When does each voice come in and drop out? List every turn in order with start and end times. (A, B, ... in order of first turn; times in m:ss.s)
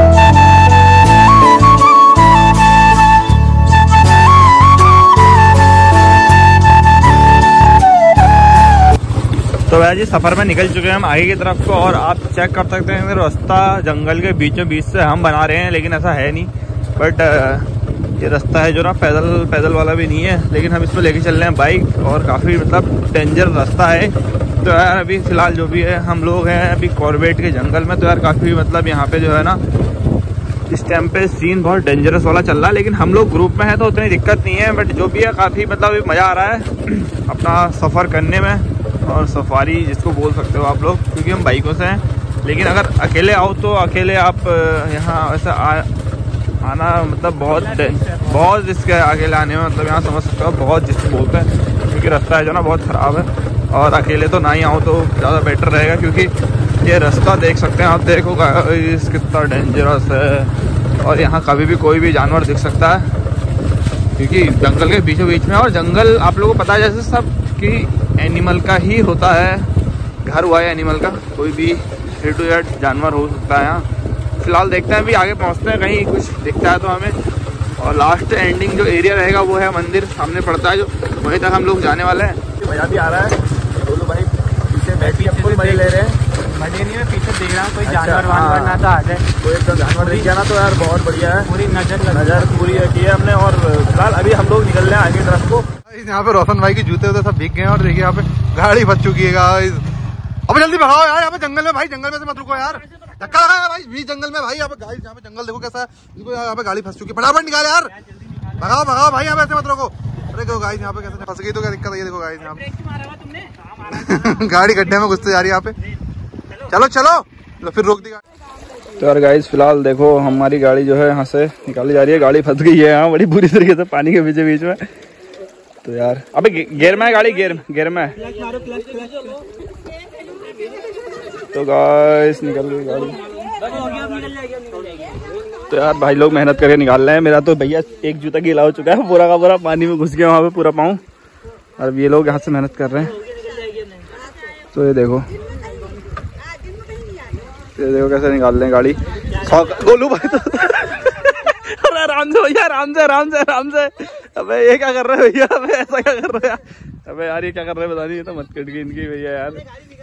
0:09.7-0:29.6 A
0:30.7-0:45.9 A
0:46.6-1:03.2 A
0:47.7-0:48.3 B
1:04.1-1:09.7 A
1:10.2-1:17.2 A
1:17.8-1:26.1 A
1:25.0-1:30.3 B
1:27.8-1:35.7 A
1:31.5-1:32.9 B
1:35.8-1:39.9 C
1:40.5-1:52.7 C
1:52.8-1:53.5 B
1:53.9-1:55.8 C
1:56.5-1:58.2 C
1:58.9-2:04.9 A
2:05.8-2:08.3 A
2:08.2-2:09.4 B
2:11.4-2:13.3 A
2:13.3-2:15.2 B
2:15.7-2:21.0 A
2:21.8-2:23.2 A
2:24.7-2:25.3 A
2:27.7-2:39.7 A